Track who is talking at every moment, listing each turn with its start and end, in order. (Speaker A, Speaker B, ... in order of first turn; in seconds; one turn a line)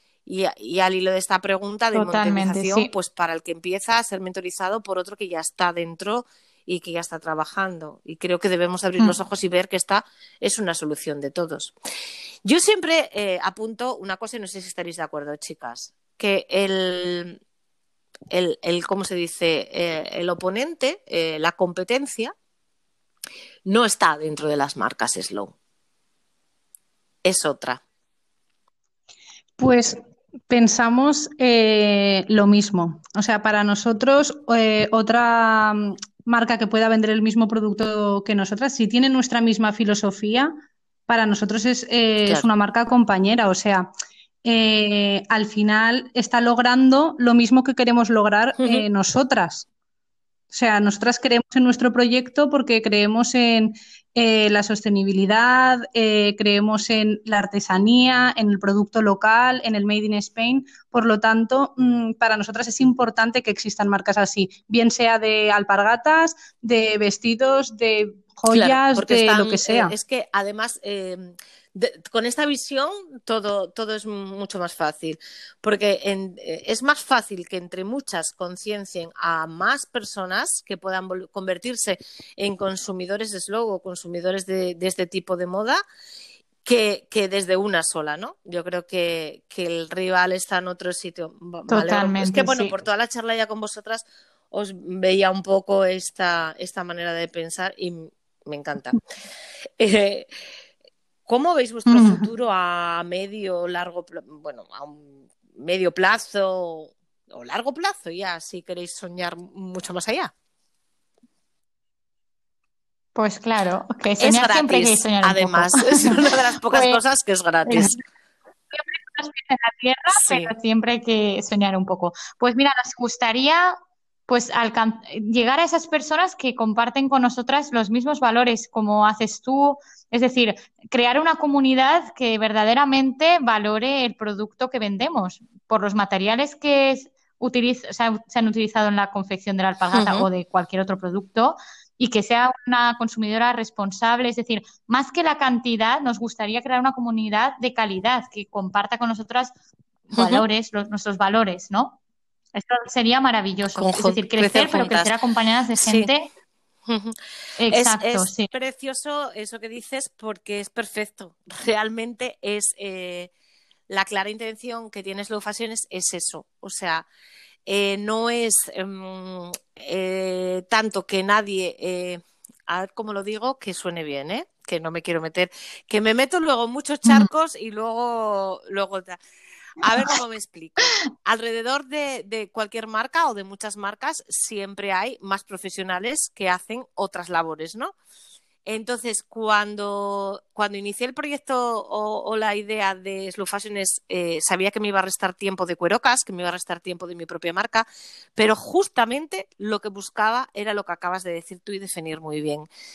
Speaker A: 0.2-11.7
Speaker B: 1.9-2.9
Speaker A: 12.4-17.4
Speaker A: 18.3-22.3
Speaker A: 23.6-25.6
Speaker A: 27.2-27.8
Speaker C: 29.6-40.5
Speaker C: 41.1-43.9
Speaker C: 44.4-49.7
Speaker A: 48.6-48.9
Speaker C: 50.5-69.9
Speaker A: 68.5-85.8
Speaker A: 86.6-99.0
Speaker B: 91.7-92.7
Speaker A: 99.8-100.3
Speaker A: 101.3-110.3
Speaker B: 101.8-102.2
Speaker B: 113.1-116.2
Speaker A: 114.2-118.0
Speaker B: 116.7-117.0
Speaker B: 117.6-118.0
Speaker B: 118.7-123.8
Speaker A: 120.1-120.5
Speaker B: 124.3-149.5
Speaker A: 139.9-140.3
Speaker B: 150.1-152.0
Speaker A: 150.2-150.4
Speaker B: 152.5-156.3
Speaker A: 153.7-155.1
Speaker A: 155.7-156.1
Speaker A: 156.8-157.2
Speaker B: 157.6-158.5
Speaker A: 157.7-163.3
Speaker A: 163.9-167.1
Speaker A: 167.7-179.2
Speaker B: 177.0-177.3
Speaker A: 179.8-187.9
Speaker A: 188.7-202.7